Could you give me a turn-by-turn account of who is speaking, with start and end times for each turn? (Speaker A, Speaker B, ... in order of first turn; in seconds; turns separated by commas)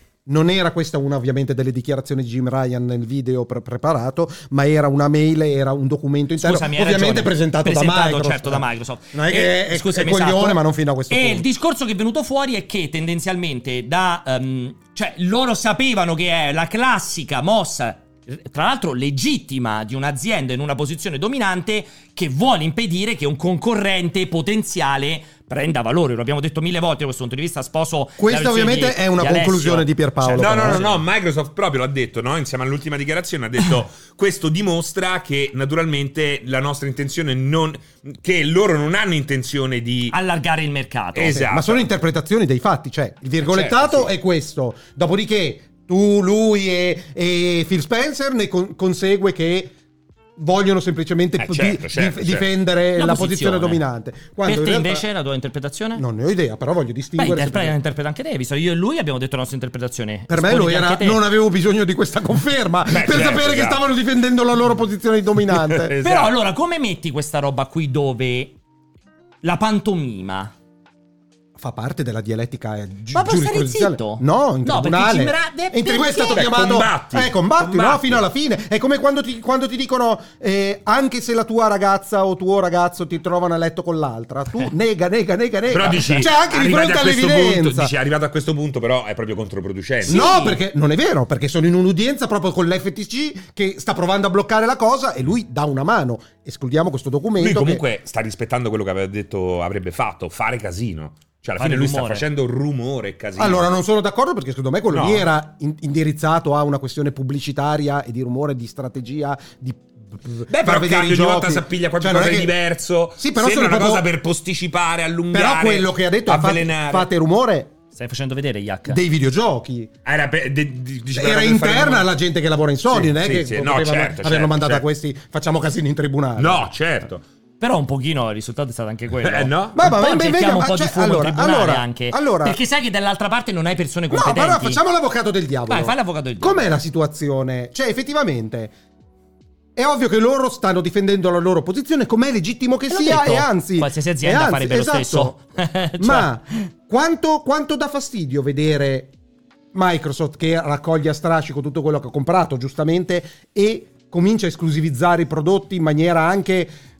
Speaker A: 0.2-11.4, Speaker B: 6.4-31.0, Speaker A: 28.2-30.8, Speaker C: 30.3-40.1, Speaker B: 40.1-41.4, Speaker C: 41.1-41.9, Speaker A: 41.3-49.7, Speaker C: 43.4-44.1, Speaker A: 50.4-55.0, Speaker C: 51.4-52.5, Speaker B: 53.0-53.8, Speaker B: 54.4-56.0, Speaker A: 56.0-57.8, Speaker B: 57.2-61.2, Speaker A: 60.3-65.9, Speaker C: 62.9-63.8, Speaker C: 65.5-66.3, Speaker B: 66.0-68.5, Speaker B: 69.4-70.5, Speaker A: 71.5-87.9, Speaker B: 73.1-76.5, Speaker C: 76.3-78.2, Speaker C: 85.7-90.2, Speaker A: 90.0-97.8, Speaker B: 90.1-90.6, Speaker C: 97.4-103.7, Speaker B: 101.6-102.2, Speaker A: 103.4-112.5, Speaker C: 104.9-105.3, Speaker C: 110.5-117.1, Speaker A: 113.2-114.0, Speaker A: 115.3-117.7, Speaker B: 117.9-119.0, Speaker A: 118.9-119.9, Speaker C: 120.0-122.1, Speaker A: 121.1-126.7, Speaker C: 122.9-124.8, Speaker C: 126.4-127.2, Speaker B: 127.6-134.8, Speaker C: 129.2-129.8, Speaker A: 129.7-132.6, Speaker A: 134.1-138.7, Speaker B: 135.7-136.7, Speaker A: 139.8-145.3, Speaker B: 142.9-146.3, Speaker A: 146.0-149.1, Speaker A: 149.7-156.7